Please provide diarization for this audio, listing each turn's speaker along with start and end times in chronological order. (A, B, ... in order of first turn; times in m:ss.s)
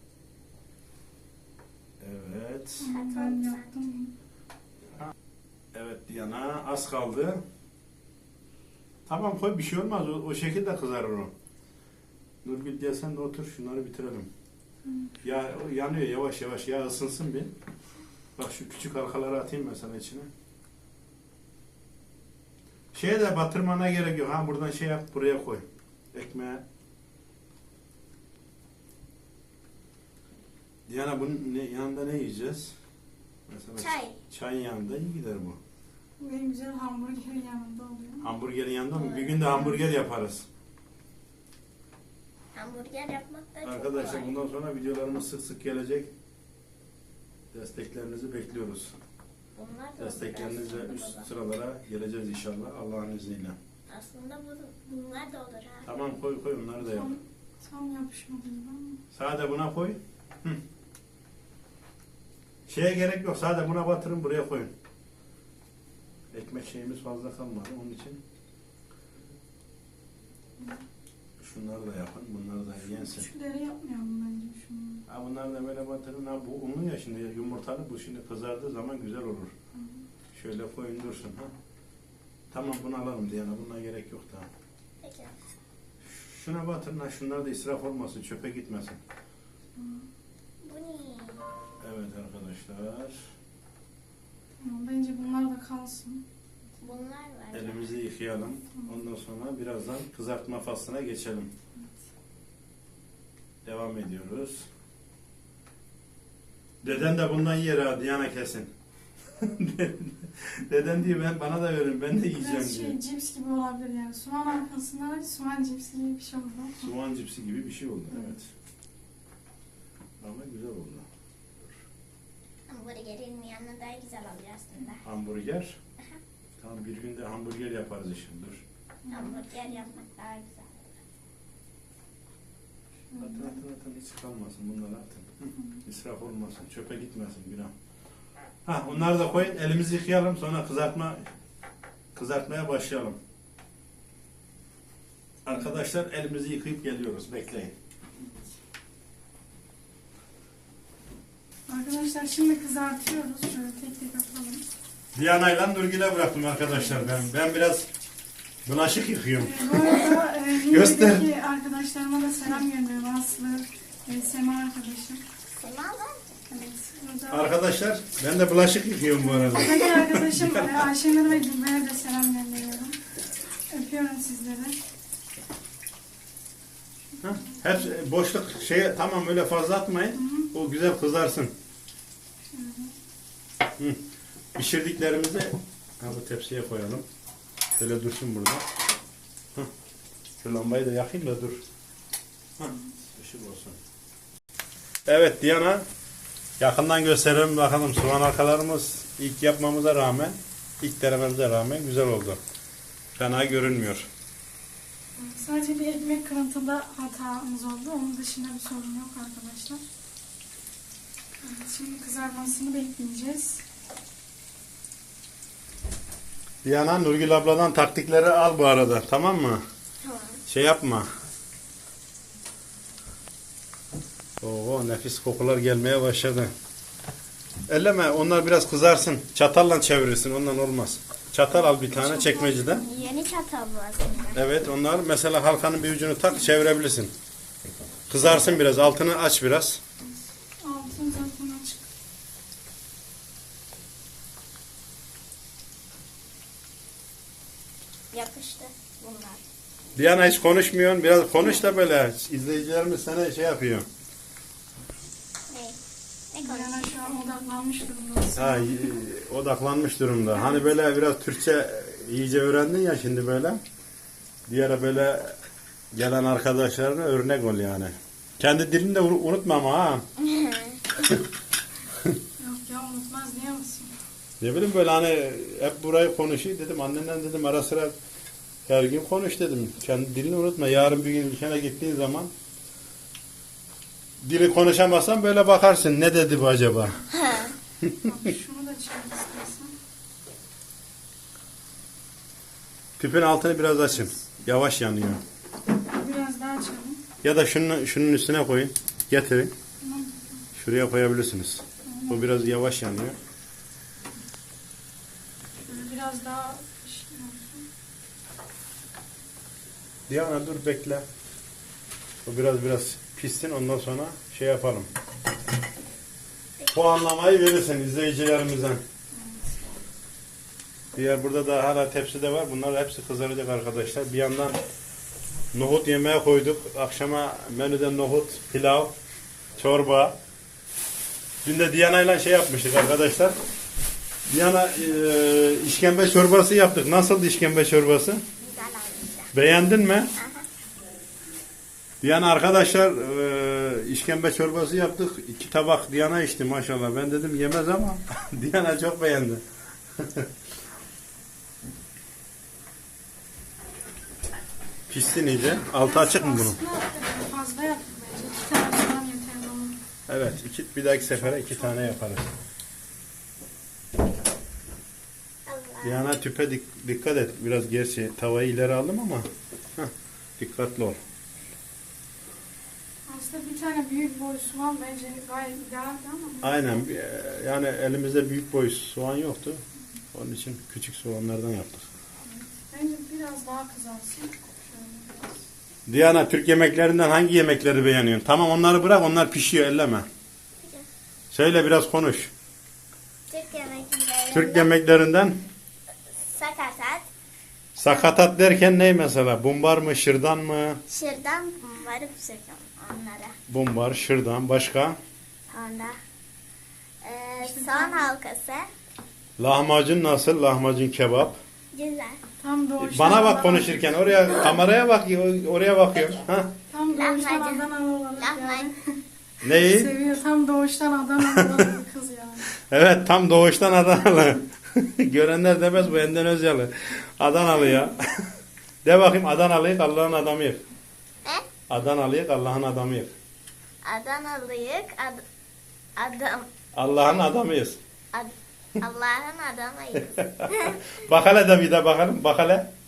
0:02.0-0:02.9 A
0:02.8-0:04.1 B
0:02.9-0:03.7 C
0:05.7-0:07.4 A
0:09.1-0:11.3 A
0:12.4-0:14.3 A
0:14.8-0:15.1 B
0:15.2-0:17.5 A
0:18.4-0:20.3 A
0:22.9-0:26.6 A
0:30.9-0:32.8 A
0:33.5-0:35.6 A
0:33.8-0:34.2 C
0:36.2-0:38.3 B
0:38.2-0:40.4 A
0:38.9-0:39.5 C
0:39.5-0:39.8 B
0:42.6-0:44.3 C
0:43.6-0:46.1 A
0:47.5-0:49.0 A
0:49.6-0:51.3 C
0:50.0-0:53.6 A
0:53.9-0:55.9 C
0:55.8-0:57.1 A
0:56.8-0:59.0 B
0:59.1-1:00.6 A
1:02.7-1:04.7 A
1:06.3-1:08.2 A
1:11.4-1:13.3 A
1:12.9-1:15.0 B
1:15.1-1:19.5 A
1:19.7-1:20.0 B
1:20.3-1:21.5 A
1:22.5-1:24.5 A
1:25.0-1:25.4 C
1:26.0-1:29.0 A
1:29.8-1:30.1 B
1:30.6-1:31.5 C
1:31.8-1:33.2 A
1:34.6-1:36.2 B
1:36.8-1:37.9 C
1:37.5-1:41.5 A
1:43.6-1:44.7 A
1:46.8-1:48.7 A
1:49.4-1:53.0 A
1:52.4-1:56.9 B
1:56.8-1:58.5 A
2:00.2-2:01.1 A
2:02.7-2:05.0 C
2:05.0-2:05.8 A
2:06.6-2:08.6 A
2:09.0-2:09.9 B
2:09.1-2:11.0 C
2:13.1-2:13.6 B
2:13.2-2:17.7 A
2:18.6-2:21.2 A
2:22.2-2:23.2 A
2:25.4-2:27.7 A
2:31.7-2:34.7 B
2:35.2-2:37.9 A
2:36.7-2:37.1 B
2:38.6-2:39.8 A
2:39.4-2:45.2 B
2:40.6-2:41.3 A
2:45.5-2:46.2 C
2:46.5-2:47.6 B
2:47.3-2:50.7 A
2:49.2-2:53.0 B
2:53.5-2:54.8 B
2:57.2-3:01.5 A
2:57.3-2:57.8 B
3:00.2-3:00.5 B
3:02.5-3:03.0 B
3:04.6-3:07.0 A
3:07.8-3:08.6 A
3:10.4-3:11.6 A
3:12.6-3:13.8 A
3:15.1-3:15.8 A
3:16.6-3:22.4 A
3:23.2-3:24.1 A
3:25.2-3:29.8 B
3:31.4-3:33.6 B
3:36.6-3:39.6 A
3:40.0-3:40.4 C
3:40.5-3:41.1 A
3:44.4-3:46.5 A
3:47.7-3:52.8 A
3:51.7-3:52.9 B
3:52.8-3:54.4 C
3:54.3-3:57.1 A
3:58.1-3:59.8 A
4:00.6-4:01.8 B
4:08.1-4:09.4 C
4:10.0-4:13.9 A
4:15.5-4:15.8 C
4:16.3-4:17.2 C
4:16.4-4:19.0 B
4:18.4-4:23.6 A
4:20.3-4:20.7 B
4:24.5-4:25.4 A
4:25.9-4:30.0 A
4:30.2-4:30.8 C
4:32.4-4:34.0 B
4:34.4-4:37.9 A
4:38.7-4:42.3 A
4:44.2-4:47.1 A
4:47.1-4:47.6 C
4:47.8-4:48.1 A
4:48.0-4:49.7 B
4:53.0-4:55.2 A
4:55.9-4:57.0 B
4:57.2-4:59.5 A
4:59.8-5:00.4 B
5:00.6-5:03.2 A
5:01.8-5:02.4 B
5:05.7-5:07.7 B
5:10.1-5:11.0 A
5:12.2-5:14.9 A
5:16.7-5:18.8 A
5:19.1-5:19.7 B
5:20.9-5:24.6 A
5:25.5-5:28.9 A
5:29.6-5:30.2 A
5:31.4-5:33.3 A
5:34.3-5:38.2 A
5:38.4-5:39.3 C
5:39.3-5:40.1 A
5:40.2-5:40.5 C
5:42.0-5:49.4 A
5:50.0-5:50.3 A
5:54.9-5:56.6 A
5:55.7-5:59.8 B
6:00.1-6:02.3 A
6:01.0-6:01.9 B
6:05.5-6:06.0 C
6:05.8-6:11.0 A
6:13.1-6:16.8 B
6:16.4-6:21.9 A
6:22.2-6:25.4 B
6:25.9-6:30.1 A
6:31.3-6:32.3 A
6:33.3-6:34.7 C
6:34.3-6:35.4 A
6:36.2-6:37.0 C
6:37.8-6:40.8 A
6:37.9-6:38.2 C
6:40.9-6:43.4 C
6:43.5-6:45.0 A
6:45.5-6:46.0 C
6:47.0-6:48.7 C
6:47.4-6:48.1 B
6:49.4-6:51.4 A
6:51.7-6:52.2 C
6:52.4-6:54.2 B
6:52.8-6:56.5 A
6:54.2-6:54.6 C
6:56.7-7:02.5 B
6:56.9-6:58.7 C
6:59.4-6:59.9 A
7:01.2-7:01.6 A
7:02.5-7:08.1 A
7:08.8-7:10.6 A
7:11.7-7:13.1 A
7:13.8-7:15.2 C
7:16.0-7:16.5 C
7:16.8-7:17.8 A
7:18.1-7:20.8 C
7:20.2-7:22.7 A